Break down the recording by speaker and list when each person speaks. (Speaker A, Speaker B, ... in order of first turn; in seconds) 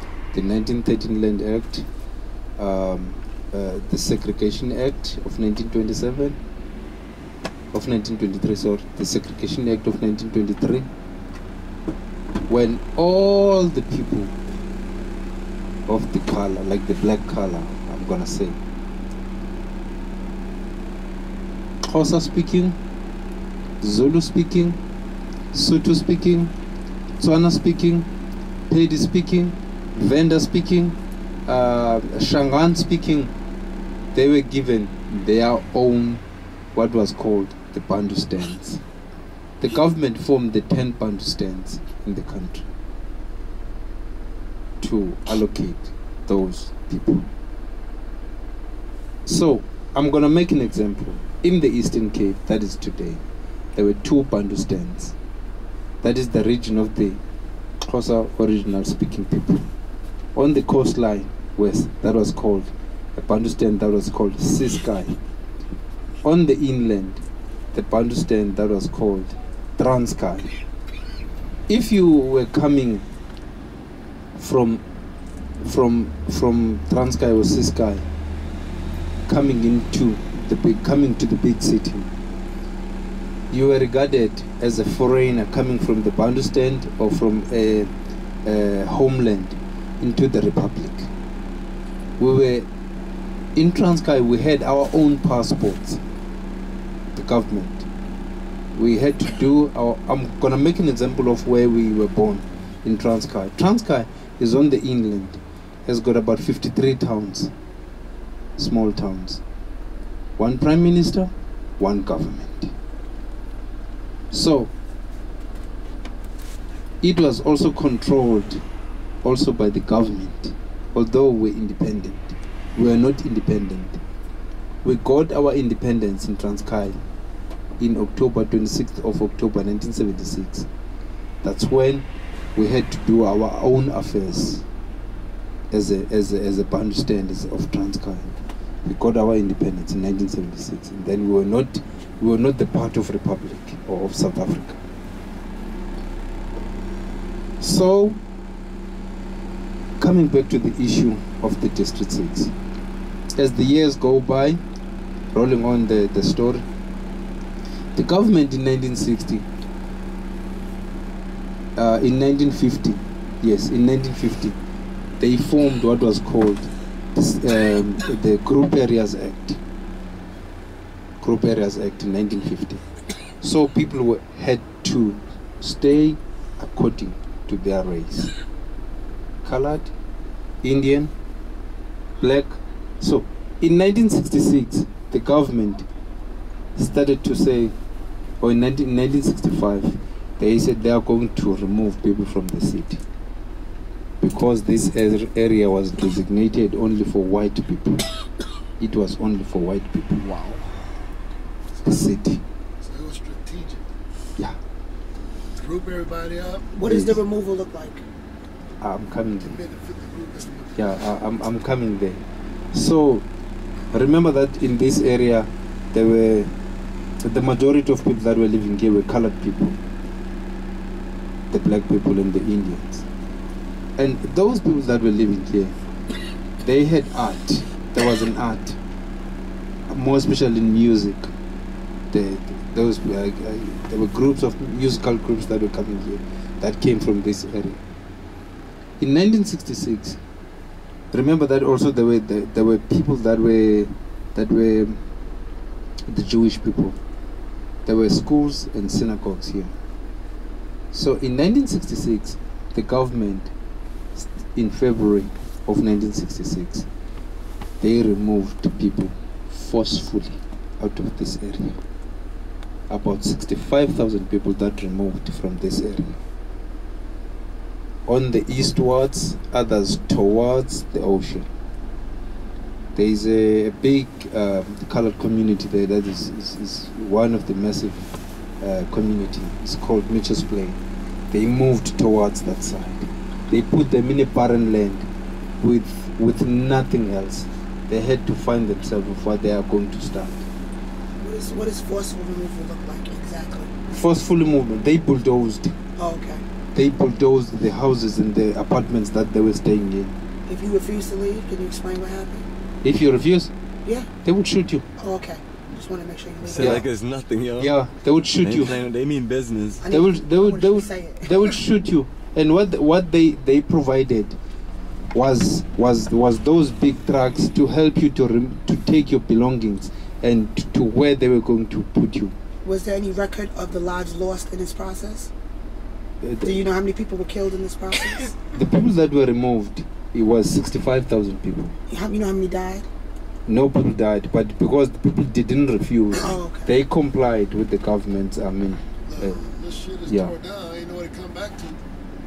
Speaker A: 0.3-1.9, 2.6-6.4, 7.7-10.9, 12.5-14.3, 15.9-18.6, 21.9-22.8, 23.8-24.8, 25.5-26.5, 27.2-28.1, 28.7-33.3, 34.1-36.2, 36.7-38.8, 39.6-42.7, 44.8-47.3, 49.3-53.2, 53.8-55.2, 56.0-57.2, 57.8-59.7, 60.4-65.2, 66.2-70.5, 71.7-73.1, 74.3-74.8, 75.6-78.1, 79.3-82.1, 83.5-87.9, 88.5-91.1, 92.2-92.7, 93.5-96.0, 97.1-97.9, 98.7-107.5, 108.6-109.4, 110.4-112.7, 114.3-114.7, 117.0-118.6, 119.2-124.0, 124.8-127.0, 127.8-130.7, 131.4-134.7, 135.7-144.8, 147.6-148.2, 150.0-152.5, 153.4-154.6, 155.3-156.7, 157.9-159.5, 161.8-164.6, 165.2-169.6, 171.2-172.8, 173.4-178.3, 179.4-179.9, 180.6-181.1, 182.2-185.9, 186.8-187.7, 188.4-193.0, 194.2-198.1, 198.8-200.6, 201.8-202.4, 206.8-207.2, 208.8-209.6, 210.8-213.3, 213.9-216.5, 217.2-219.8, 221.5-223.1, 224.0-225.8, 226.6-228.8, 229.9-231.3, 232.1-237.8, 239.0-240.2, 241.1-245.0, 246.1-247.0, 247.9-249.7, 250.9-253.5, 254.2-256.9, 257.8-261.8, 262.9-266.2, 268.1-271.5, 272.9-278.1, 278.6-280.8, 281.3-285.1, 285.6-290.4, 293.9-295.8, 296.7-300.2, 302.8-303.5, 304.2-304.9, 306.6-306.9, 307.6-308.8, 309.9-314.4, 315.1-322.4, 326.2-326.6, 328.5-331.8, 333.5-339.5, 340.1-340.4
Speaker B: 202.8-203.8, 205.6-206.7, 209.4-211.0, 339.1-341.8
Speaker C: 206.7-208.0, 291.2-293.8, 296.0-296.4, 300.5-302.5, 305.0-306.8, 309.8-311.6, 322.6-325.3, 326.4-328.4, 331.9-332.9, 336.1-336.7
Speaker D: 306.4-307.7, 308.4-309.9